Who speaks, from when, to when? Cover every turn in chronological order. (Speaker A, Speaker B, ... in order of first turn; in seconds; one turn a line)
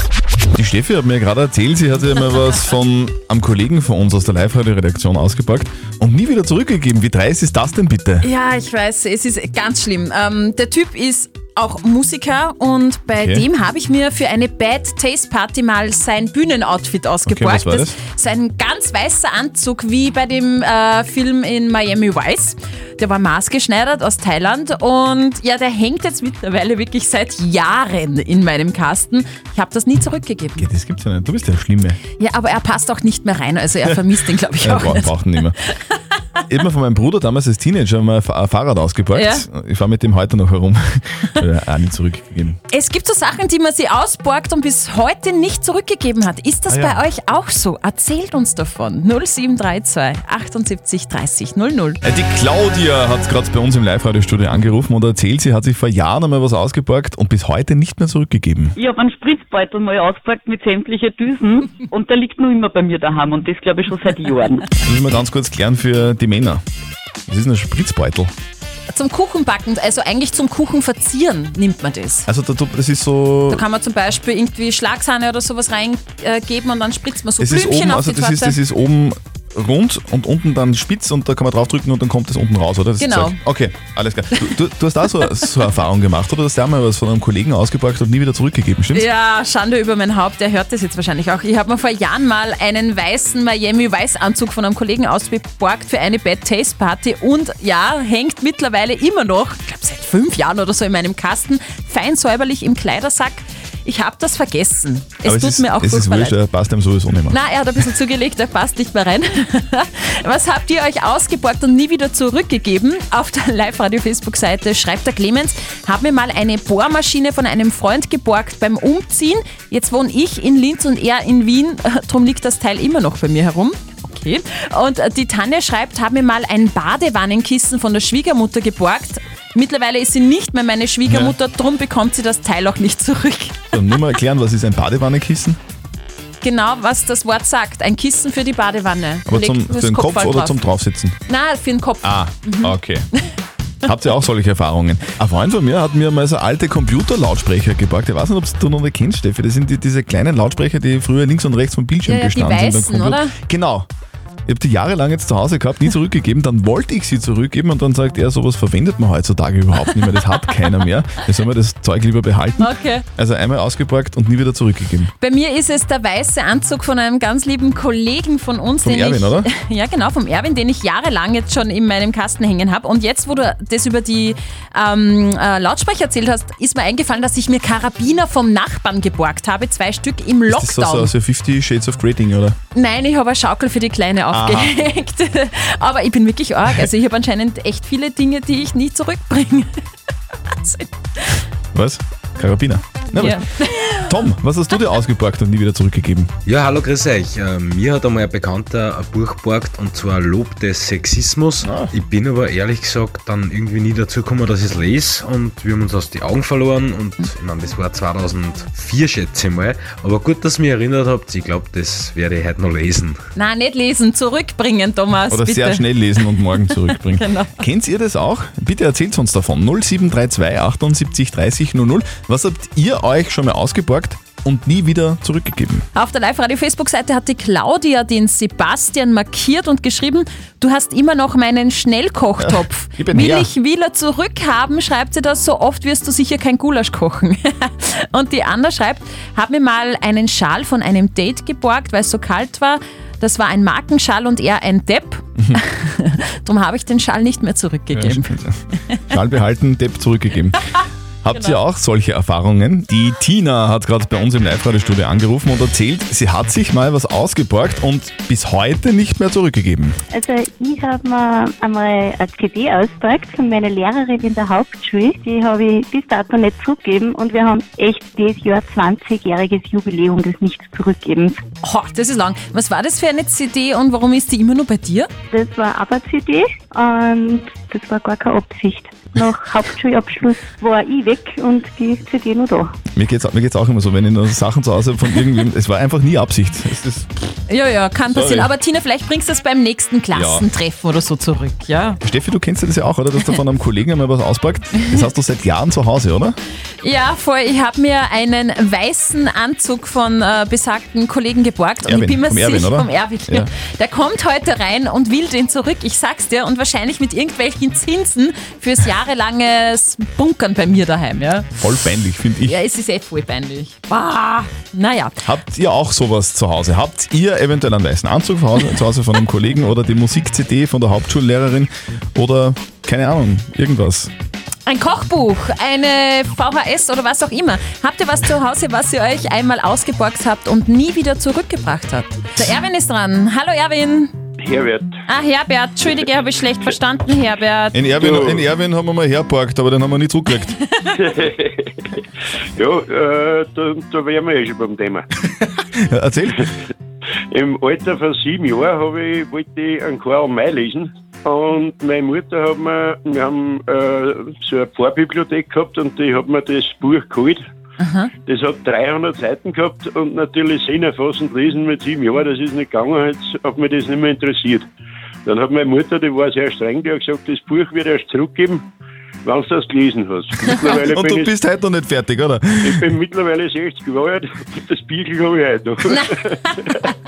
Speaker A: 0.5-8.3
Speaker B: 8.2-30.7
Speaker A: 13.2-13.5
Speaker A: 17.2-18.0
Speaker A: 30.6-32.0
Speaker B: 32.2-35.4
Speaker A: 34.6-35.5
Speaker A: 36.5-42.6
Speaker B: 39.1-39.4
Speaker B: 42.7-52.0
Speaker A: 46.7-47.0
Speaker A: 52.0-58.7
Speaker C: 58.8-64.7
Speaker A: 64.8-66.6
Speaker A: 67.3-68.3
Speaker B: 68.9-72.3
Speaker A: 72.3-73.6
Speaker B: 73.5-78.6
Speaker A: 77.4-89.1
Speaker B: 83.0-83.4
Speaker B: 88.9-106.4
Speaker A: 105.2-107.4
Speaker B: 107.3-134.0
Speaker A: 131.1-131.3
Speaker A: 133.7-135.6
Speaker B: 136.4-140.6
Speaker A: 139.3-141.2
Speaker B: 141.3-142.8
Speaker A: 142.0-143.1
Speaker A: 143.8-153.9
Speaker B: 152.0-153.3
Speaker A: 154.5-165.1
Speaker B: 160.2-160.5
Speaker B: 162.6-163.0
Speaker B: 165.2-181.1
Speaker A: 168.8-169.5
Speaker A: 180.5-182.6
Speaker B: 182.7-189.7
Speaker A: 184.3-184.7
Speaker B: 190.5-191.4
Speaker A: 191.7-196.3
Speaker B: 193.2-194.1
Speaker D: 196.4-213.2
Speaker A: 201.6-201.9
Speaker B: 213.3-217.5
Speaker A: 215.3-225.8
Speaker B: 225.9-249.0
Speaker A: 232.4-233.5
Speaker A: 247.9-248.6
Speaker A: 249.1-250.6
Speaker A: 251.2-260.0
Speaker B: 251.3-251.6
Speaker E: 260.1-271.4
Speaker B: 271.6-275.1
Speaker E: 275.3-282.7
Speaker A: 282.9-287.2
Speaker B: 287.5-292.0
Speaker A: 288.1-288.5
Speaker A: 290.1-290.4
Speaker A: 292.0-296.4
Speaker B: 296.8-311.5
Speaker A: 301.8-303.5
Speaker A: 311.6-312.6
Speaker B: 312.4-315.2
Speaker A: 315.2-324.1
Speaker B: 324.6-334.1
Speaker F: 334.4-334.9
Speaker B: 335.1-337.8
Speaker A: 337.7-340.6
Speaker F: 338.0-338.4
Speaker F: 341.0-341.8
Speaker F: 342.6-345.1
Speaker A: 345.4-346.5
Speaker F: 347.3-357.4
Speaker B: 357.8-358.1
Speaker F: 358.2-364.7
Speaker F: 365.2-368.6
Speaker F: 369.2-371.3
Speaker A: 370.5-373.0
Speaker F: 372.6-376.9